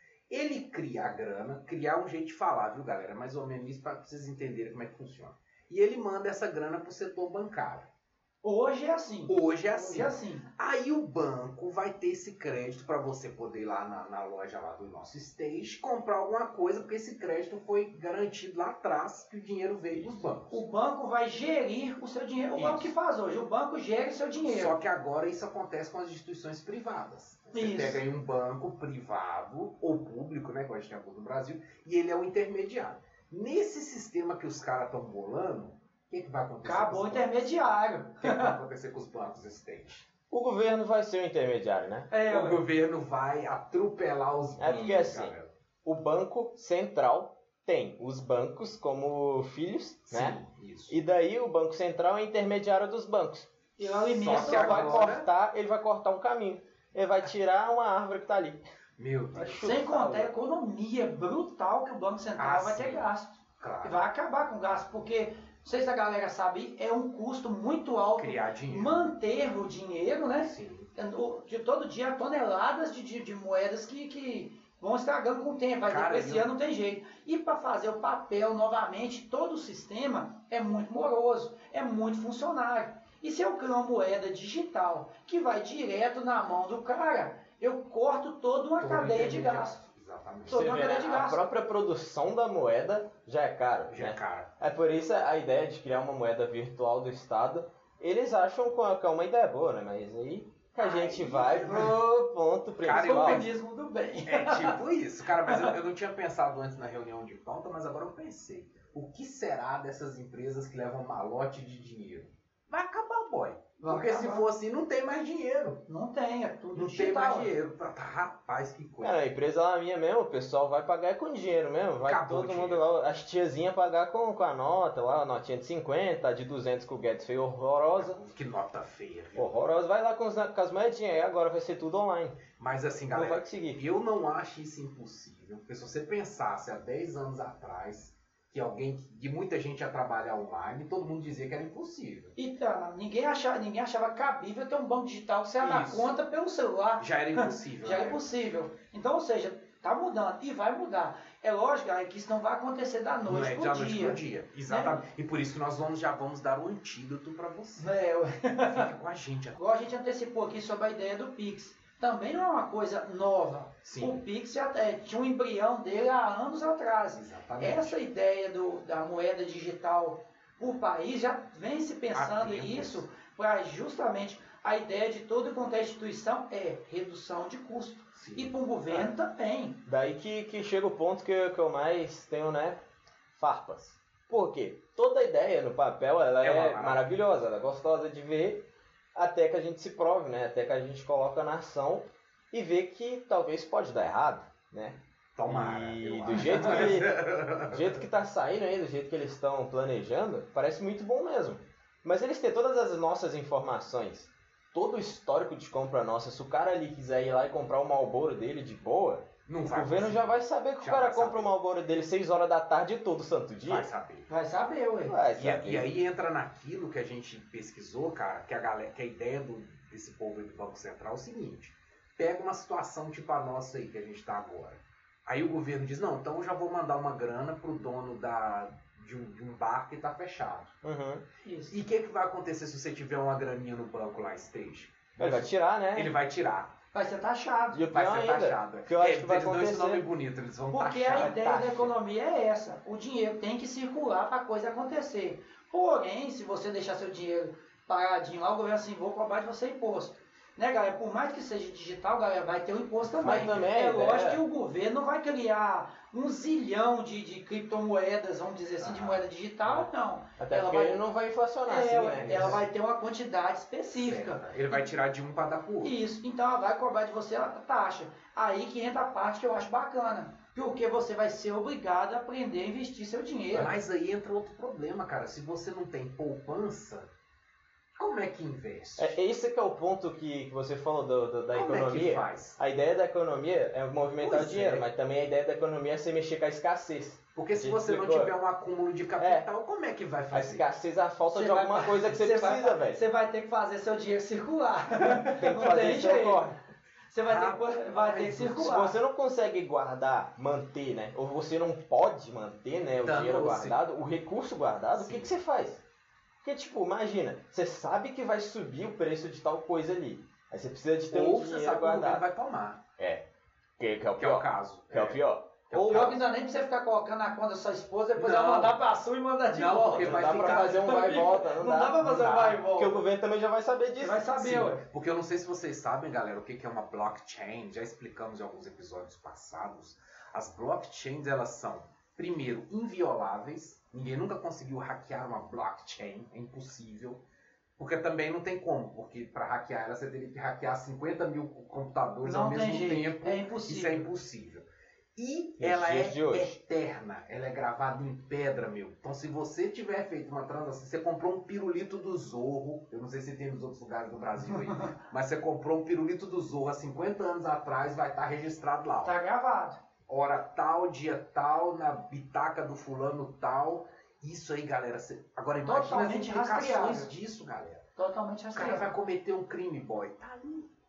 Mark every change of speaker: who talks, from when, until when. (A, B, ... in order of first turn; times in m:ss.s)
0:00.3-0:07.9 A
0:08.4-0:10.5 B
0:09.3-0:20.6 A
0:19.9-0:20.2 C
0:20.5-0:24.7 B
0:22.5-0:22.9 A
0:24.4-0:37.4 A
0:27.5-0:28.0 B
0:36.6-0:38.6 B
0:38.2-0:40.0 A
0:40.3-0:42.1 C
0:42.1-0:42.6 B
0:42.2-0:45.5 A
0:44.6-0:45.3 C
0:45.8-0:50.4 C
0:50.1-0:51.0 A
0:50.9-0:53.5 C
0:53.8-0:55.1 B
0:54.1-0:55.3 A
0:54.1-0:58.6 C
0:59.0-0:59.7 A
0:59.3-1:00.3 C
0:59.6-1:29.8 B
1:02.4-1:03.1 A
1:03.6-1:04.0 A
1:08.2-1:09.0 A
1:10.4-1:10.9 A
1:15.9-1:16.5 A
1:28.8-1:30.7 A
1:30.5-1:31.4 B
1:30.5-1:43.4 C
1:33.9-1:34.5 A
1:40.8-1:42.0 A
1:42.8-1:43.5 A
1:43.0-1:44.8 B
1:44.2-1:55.8 A
1:45.4-1:45.7 B
1:53.8-1:54.5 B
1:55.9-1:57.5 B
1:56.7-1:59.2 A
1:59.0-2:08.2 C
2:02.0-2:02.8 A
2:08.0-2:09.5 A
2:09.4-2:12.4 C
2:12.6-2:22.3 A
2:13.1-2:13.8 C
2:22.4-2:35.0 B
2:25.6-2:26.1 A
2:27.0-2:28.2 A
2:33.2-2:37.9 A
2:37.8-2:38.9 B
2:38.6-2:39.6 A
2:39.6-2:59.8 B
2:43.8-2:44.2 A
2:47.1-2:48.0 A
2:52.1-2:53.0 A
2:58.1-2:59.1 A
2:59.9-3:02.8 C
3:03.3-3:33.9 C
3:06.4-3:07.0 A
3:15.4-3:18.0 A
3:29.4-3:31.5 A
3:33.6-3:34.3 A
3:34.3-3:35.2 B
3:35.1-3:35.9 C
3:35.4-3:50.7 A
3:50.8-3:51.2 C
3:51.4-3:51.8 B
3:51.7-3:56.7 A
3:55.2-3:56.1 C
3:56.9-3:57.8 B
3:57.7-4:00.0 C
3:57.9-4:01.4 A
4:00.7-4:21.0 B
4:01.0-4:01.9 C
4:13.2-4:14.4 C
4:18.8-4:19.2 A
4:20.4-4:22.6 C
4:21.7-4:24.8 B
4:22.2-4:22.6 A
4:23.9-4:25.9 A
4:25.8-4:33.7 B
4:33.5-4:37.1 A
4:38.0-4:39.2 A
4:39.0-4:48.3 C
4:41.5-4:42.6 A
4:44.2-4:44.8 A
4:47.4-4:50.6 A
4:49.2-4:49.5 C
4:50.3-4:53.0 C
4:51.3-4:56.5 B
4:55.3-4:56.5 C
4:57.1-4:59.0 B
4:57.2-4:58.8 A
4:58.5-5:05.8 C
5:03.0-5:03.8 A
5:04.9-5:05.3 A
5:06.4-5:12.2 C
5:11.1-5:12.8 A
5:13.0-5:13.2 C
5:13.8-5:16.2 C
5:14.2-5:16.2 A
5:15.8-5:23.0 B
5:18.2-5:18.8 A
5:19.5-5:21.1 A
5:19.9-5:24.7 C
5:22.0-5:22.6 A
5:24.0-5:24.8 B
5:24.4-5:37.2 A
5:37.8-5:44.6 A
5:42.2-5:44.1 B
5:45.2-5:59.2 A
5:45.6-5:46.5 C
5:54.6-5:54.9 B
5:59.0-5:59.8 B
6:00.1-6:07.8 A
6:05.6-6:07.1 B
6:08.0-6:08.9 B
6:08.5-6:10.7 A